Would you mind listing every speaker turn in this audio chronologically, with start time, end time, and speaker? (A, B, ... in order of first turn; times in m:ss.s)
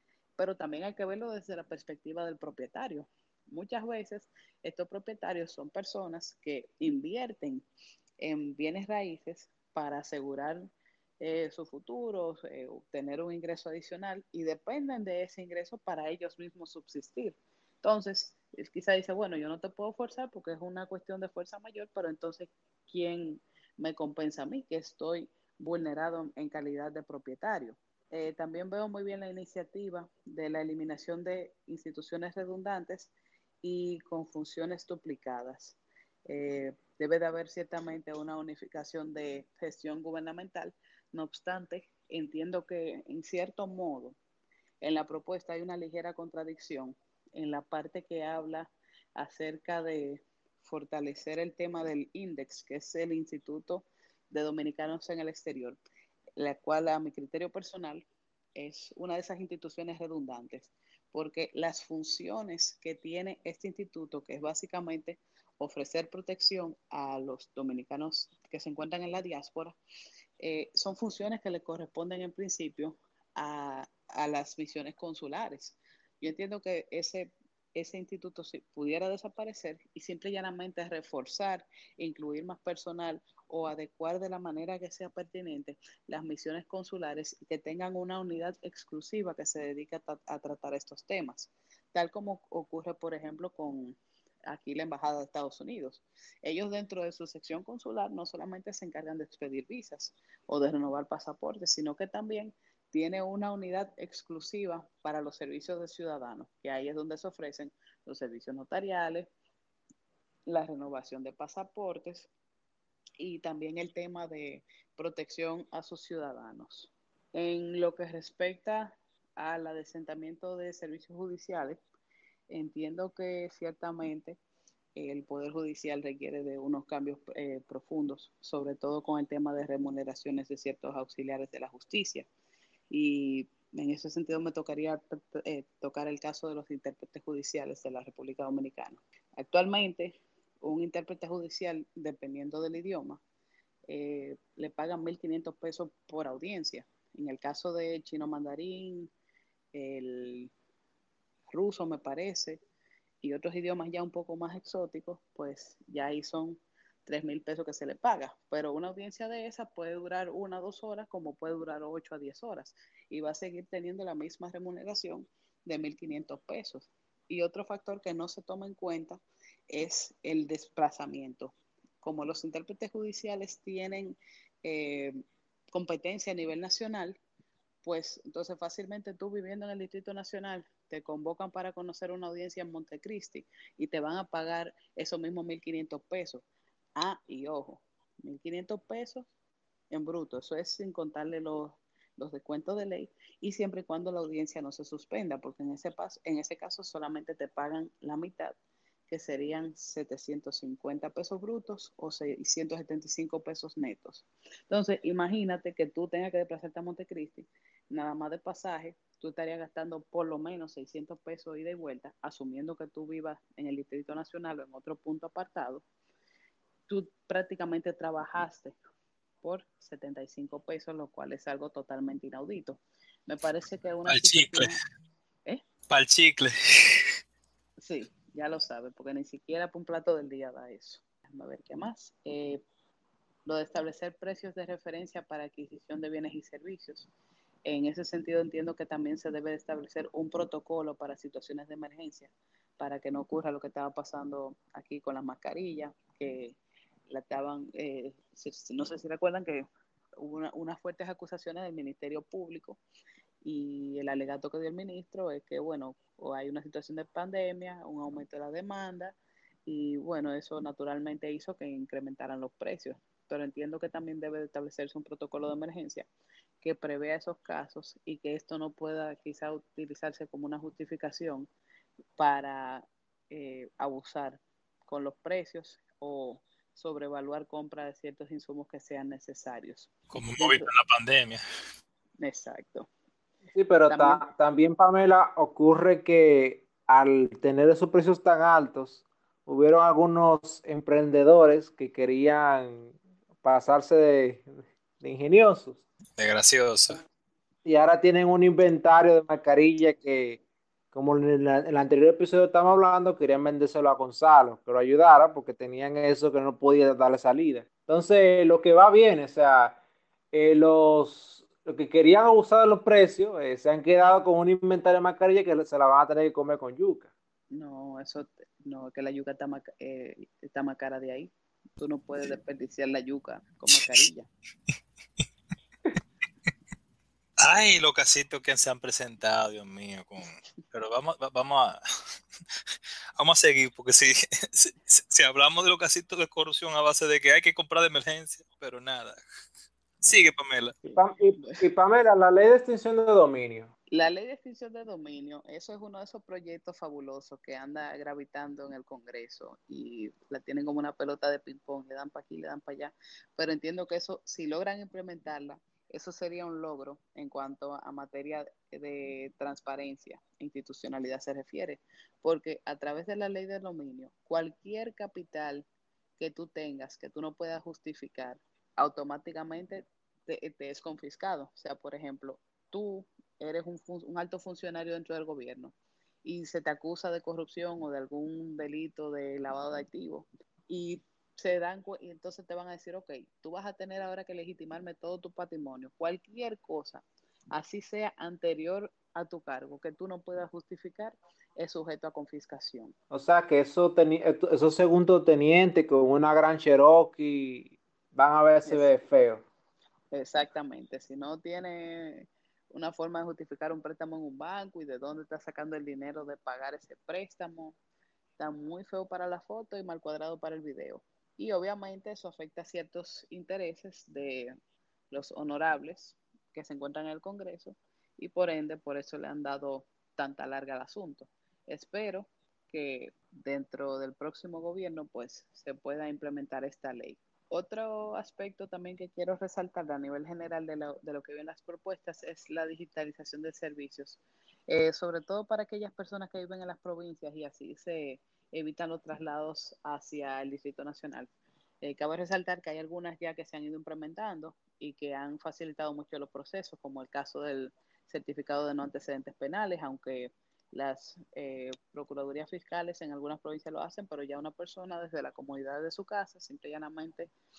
0:00.4-0:07.6 A
0:08.2-0:33.1 A
0:33.6-0:35.8 A
0:36.3-0:44.2 A
0:44.8-0:55.8 A
0:56.4-1:09.8 A
1:10.4-1:34.0 A
1:34.5-1:49.3 A
1:50.5-1:52.3 A
1:53.2-2:01.8 A
2:02.5-2:04.4 A
2:05.0-2:12.3 A
2:12.9-2:23.2 A
2:23.9-2:29.1 A
2:29.7-2:30.5 A
2:31.5-2:32.6 A
2:33.2-2:55.2 A
2:55.7-2:57.2 A
2:57.8-3:06.4 A
3:07.0-3:09.3 A
3:09.9-3:18.6 A
3:19.1-3:35.8 A
3:36.9-3:38.8 A
3:39.4-3:44.8 A
3:44.1-3:44.7 B
3:45.9-3:47.1 B
3:47.8-3:52.6 A
3:53.5-3:57.1 A
3:57.7-4:06.6 A
4:07.1-4:09.7 A
4:10.2-4:12.8 A
4:13.4-4:26.1 A
4:26.6-4:31.5 A
4:32.2-4:40.7 A
4:40.1-4:41.4 B
4:42.2-4:42.9 A
4:43.5-4:54.5 C
4:43.9-4:44.2 A
4:55.0-4:55.8 C
4:56.2-4:57.0 B
4:57.6-5:00.4 C
5:00.9-5:09.8 C
5:10.3-5:17.1 C
5:17.5-5:24.3 A
5:27.4-5:31.8 B
5:33.2-5:39.2 B
5:40.1-5:40.8 B
5:40.8-5:41.6 A
5:40.9-5:43.7 C
5:43.9-6:05.7 A
6:06.2-6:33.0 A
6:33.1-6:39.4 C
6:38.6-6:38.9 A
6:40.1-6:47.8 A
6:48.4-6:54.6 A
6:55.1-7:21.3 A
7:21.8-7:37.3 A